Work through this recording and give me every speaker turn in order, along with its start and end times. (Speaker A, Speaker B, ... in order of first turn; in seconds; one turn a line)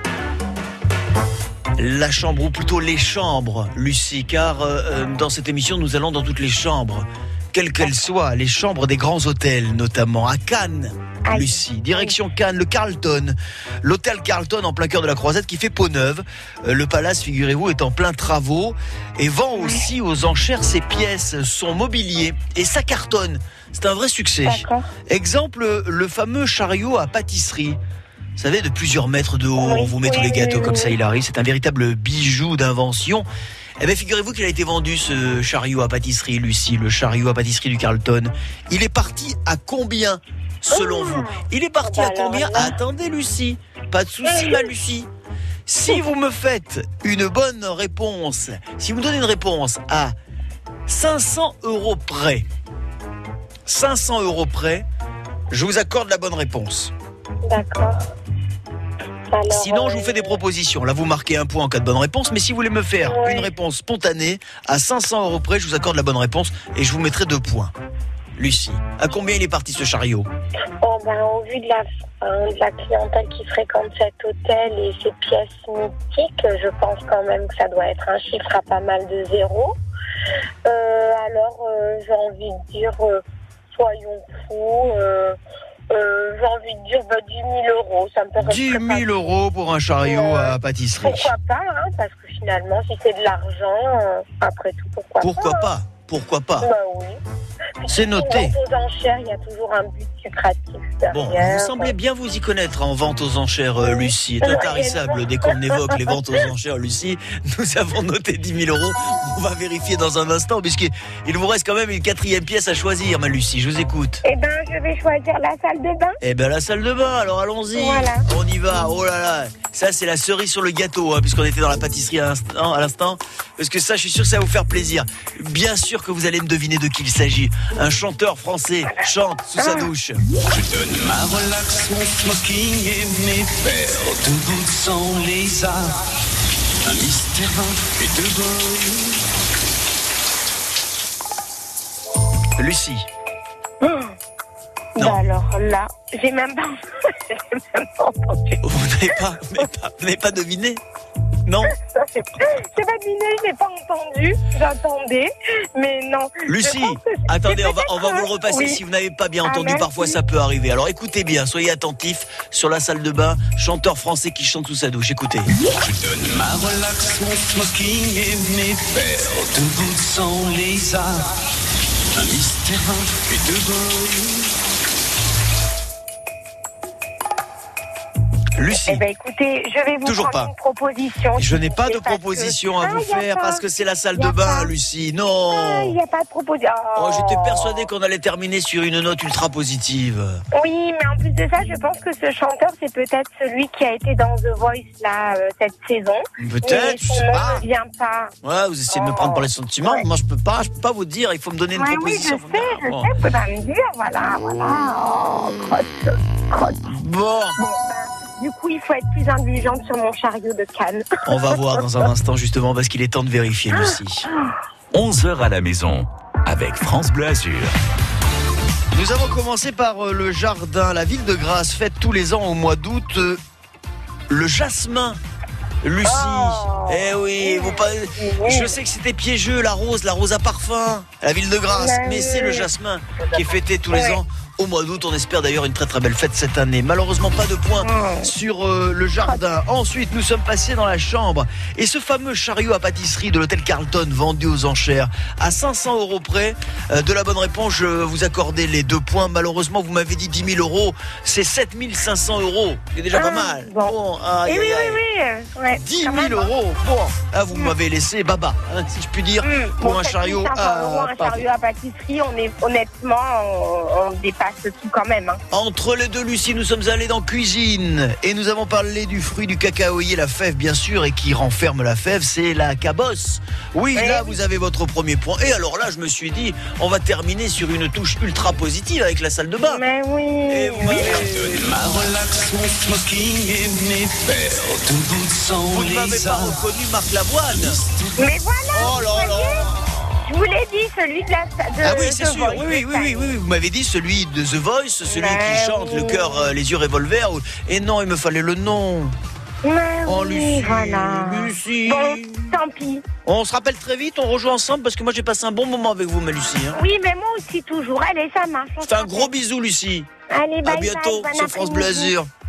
Speaker A: 1.8-27.8
Speaker B: 11.3-12.1
Speaker B: 19.6-19.8
Speaker B: 24.4-24.9
Speaker A: 28.4-33.3
Speaker B: 29.6-30.9
Speaker A: 33.8-45.1
Speaker B: 40.7-42.7
Speaker B: 44.2-44.6
Speaker A: 45.7-50.1
Speaker A: 50.9-52.5
Speaker A: 53.6-54.9
Speaker A: 55.5-56.9
Speaker B: 57.5-58.0
Speaker B: 59.3-60.4
Speaker A: 59.5-67.7
Speaker B: 63.0-63.5
Speaker A: 68.4-70.3
Speaker B: 70.8-79.8
Speaker B: 80.7-85.4
Speaker B: 85.9-89.1
Speaker A: 88.4-91.3
Speaker B: 90.0-95.7
Speaker A: 95.2-96.7
Speaker B: 96.6-97.2
Speaker B: 97.8-101.9
Speaker A: 97.9-98.5
Speaker A: 101.1-114.2
Speaker B: 103.8-106.0
Speaker B: 114.2-116.2
Speaker A: 116.2-130.2
Speaker B: 117.7-118.2
Speaker B: 129.6-129.9
Speaker C: 130.5-135.9
Speaker C: 136.8-139.2
Speaker A: 142.6-143.1
Speaker B: 143.8-144.1
Speaker B: 145.0-148.6
Speaker A: 148.6-150.8
Speaker A: 151.5-151.7
Speaker B: 151.8-158.8
Speaker A: 156.5-165.5
Speaker B: 159.4-160.1
Speaker C: 165.7-171.2
Speaker C: 172.1-174.5
Speaker A: 178.6-179.0
Speaker B: 178.9-184.7
Speaker A: 180.0-180.5
Speaker A: 181.3-185.9
Speaker B: 185.5-187.8
Speaker A: 186.9-190.4
Speaker B: 190.5-198.3
Speaker A: 196.4-197.6
Speaker A: 198.4-203.1
Speaker B: 198.9-200.0
Speaker B: 201.7-206.8
Speaker A: 206.9-207.6
Speaker B: 207.6-212.0
Speaker A: 211.3-214.3
Speaker B: 213.7-214.4
Speaker D: 214.9-217.8
Speaker A: 218.9-223.4
Speaker A: 224.3-225.2
Speaker A: 225.8-255.0
Speaker B: 226.0-228.7
Speaker B: 231.7-232.7
Speaker B: 233.2-234.2
Speaker B: 237.8-238.3
Speaker B: 253.1-253.9
Speaker B: 254.4-256.5
Speaker A: 255.8-261.4
Speaker B: 259.4-265.4
Speaker A: 265.5-279.8
Speaker B: 273.9-274.3
Speaker B: 279.6-281.2
Speaker A: 280.5-281.7
Speaker C: 280.8-286.6
Speaker A: 285.7-287.8
Speaker C: 287.5-288.3
Speaker B: 288.2-289.7
Speaker A: 288.7-290.1
Speaker B: 290.2-293.3
Speaker A: 291.8-299.1
Speaker B: 295.1-296.5
Speaker B: 299.6-303.0
Speaker A: 300.1-302.5
Speaker A: 303.2-306.8
Speaker B: 306.8-309.3
Speaker A: 308.8-310.1
Speaker B: 310.3-312.1
Speaker A: 310.6-312.3